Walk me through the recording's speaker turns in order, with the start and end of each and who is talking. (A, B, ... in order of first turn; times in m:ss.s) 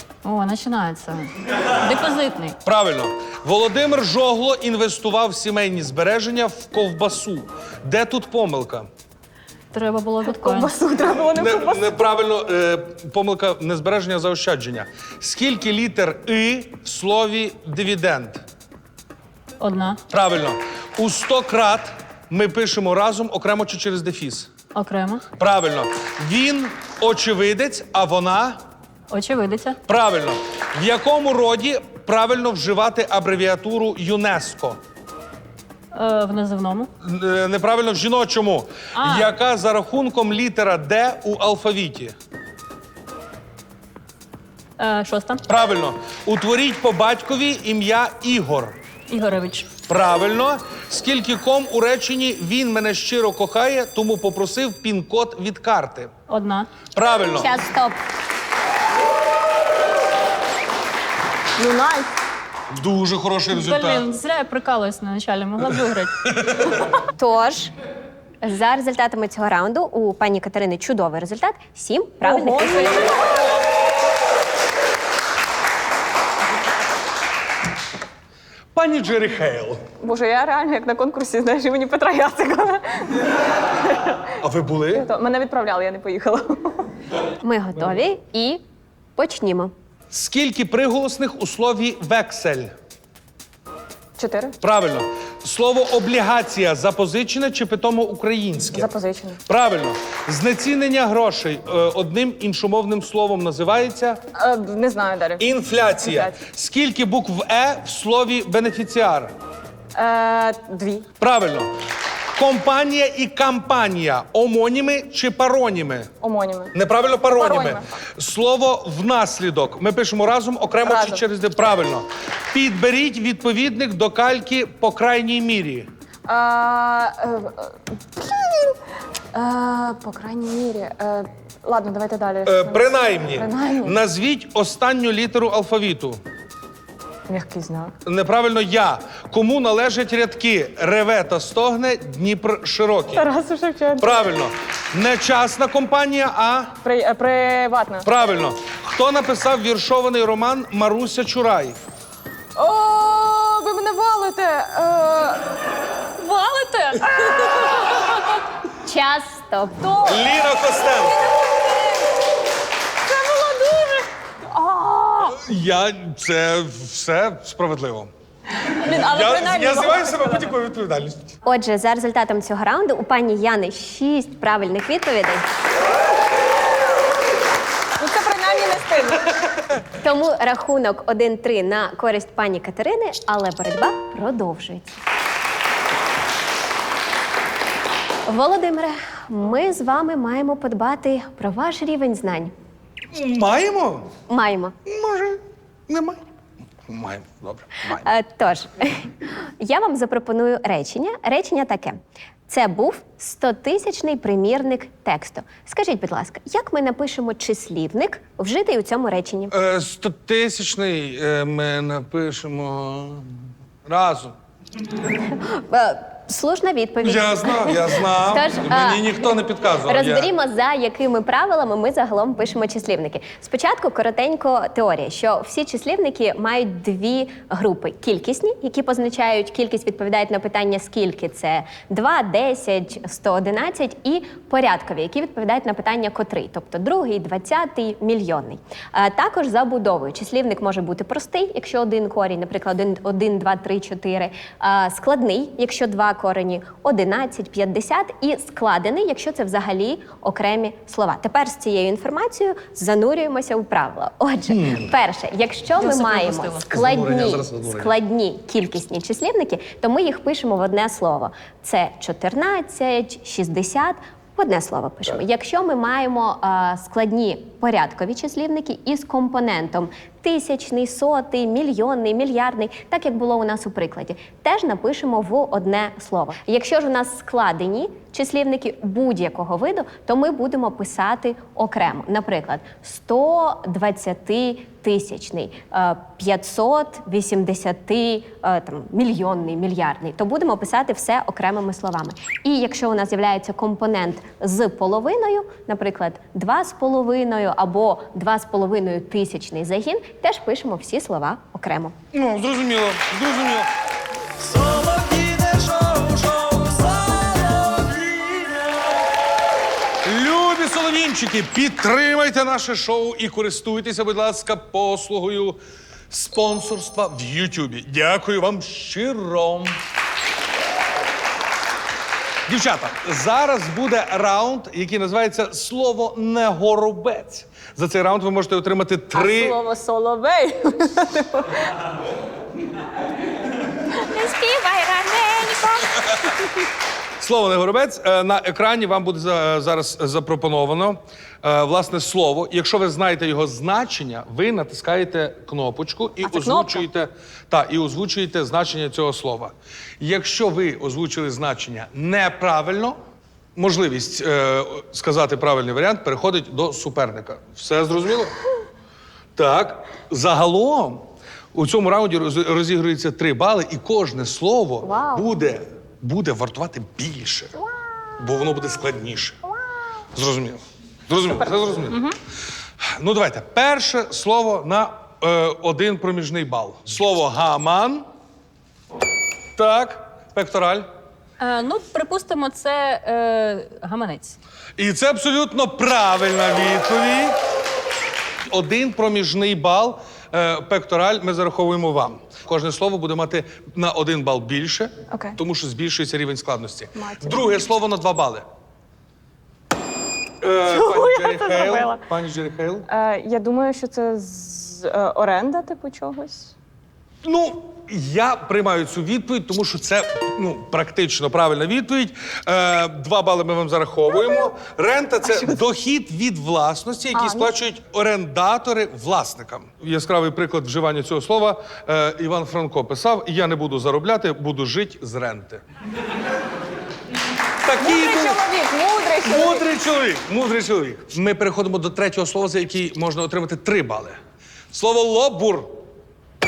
0:00.2-0:02.6 A
0:02.6-0:08.9 B
0:09.7-0:10.7 A
0:10.2-0:12.0 C
0:11.4-0:18.4 B
0:19.6-0:20.0 A
0:20.1-0:24.5 B
0:24.7-0:25.2 A
0:25.4-0:28.6 B
0:29.1-0:29.8 A
0:29.9-0:34.8 B
0:35.9-0:36.9 A
0:37.0-0:42.2 B
0:39.0-0:39.3 A
0:44.8-0:45.4 A
0:45.5-0:48.8 B
0:49.1-0:49.7 A
0:49.9-0:56.1 B
0:56.3-0:56.7 A
0:57.0-0:57.5 B
0:57.4-0:58.0 D
1:01.6-1:02.1 C
1:02.7-1:04.1 B
1:03.5-1:06.2 A
1:06.3-1:06.6 B
1:07.2-1:07.7 D
1:08.4-1:13.2 D
1:12.2-1:13.4 C
1:18.8-1:19.8 B
1:20.0-1:23.2 C
1:23.8-1:24.2 C
1:24.4-1:25.1 B
1:24.9-1:26.9 C
1:27.4-1:28.6 D
1:29.2-1:29.7 D
1:30.1-1:32.7 B
1:34.2-1:34.6 C
1:34.6-1:38.9 B
1:38.7-1:39.4 C
1:39.5-1:44.2 B
1:44.4-1:45.5 C
1:45.4-1:49.3 B
1:46.0-1:46.4 C
1:50.0-1:51.1 C
1:51.2-1:51.7 B
1:52.4-1:56.1 B
1:56.2-1:56.7 C
1:56.7-2:05.9 B
1:57.4-1:58.0 C
2:00.8-2:01.2 C
2:06.3-2:08.8 C
2:09.3-2:14.0 C
2:12.4-2:16.2 B
2:17.3-2:18.0 C
2:18.0-2:23.3 B
2:23.2-2:24.2 C
2:24.0-2:26.8 B
2:26.8-2:28.1 C
2:28.0-2:31.8 B
2:32.6-2:35.5 C
2:36.2-2:38.1 A
2:37.3-2:38.0 C
2:38.8-2:39.9 D
2:39.8-2:40.3 C
2:40.0-2:41.4 B
2:41.0-2:42.1 C
2:43.1-2:45.4 C
2:45.3-2:48.1 B
2:48.6-2:50.5 C
2:48.8-2:51.3 B
2:51.4-2:55.5 D
2:58.0-2:59.3 C
3:00.0-3:05.0 D
3:08.3-3:12.5 D
3:13.1-3:14.1 B
3:14.3-3:14.8 D
3:14.9-3:16.2 B
3:16.9-3:18.1 B
3:17.9-3:29.6 D
3:29.5-3:34.4 B
3:35.2-3:39.2 D
3:37.0-3:40.3 B
3:39.9-5:02.0 D
4:14.5-4:14.9 B
4:15.8-4:16.7 A
4:16.7-4:17.9 B
5:02.1-5:03.7 B
5:05.0-5:08.2 B
5:10.0-5:15.6 B
5:16.1-5:19.8 B
5:22.5-5:29.6 B
5:29.1-5:31.7 C
5:34.1-5:36.2 A
5:37.2-5:53.0 B
5:46.2-5:46.9 C
5:53.6-5:58.3 B
5:59.4-6:07.6 B
6:04.8-6:05.3 C
6:07.6-6:08.1 C
6:08.2-6:09.4 B
6:10.2-6:12.0 B
6:11.9-6:12.2 C
6:13.0-6:18.0 B
6:19.6-6:20.9 B
6:21.4-6:24.4 A
6:24.8-6:27.4 B
6:28.5-6:38.5 B
6:35.1-6:35.4 C
6:37.0-6:37.5 C
6:40.4-6:42.9 B
6:40.6-6:42.0 C
6:42.9-6:46.5 C
6:47.2-7:05.6 B
6:55.2-6:55.6 C
6:57.1-6:57.6 C
7:07.6-7:08.4 B
7:07.8-7:09.6 C
7:09.2-7:14.2 B
7:14.7-7:15.8 B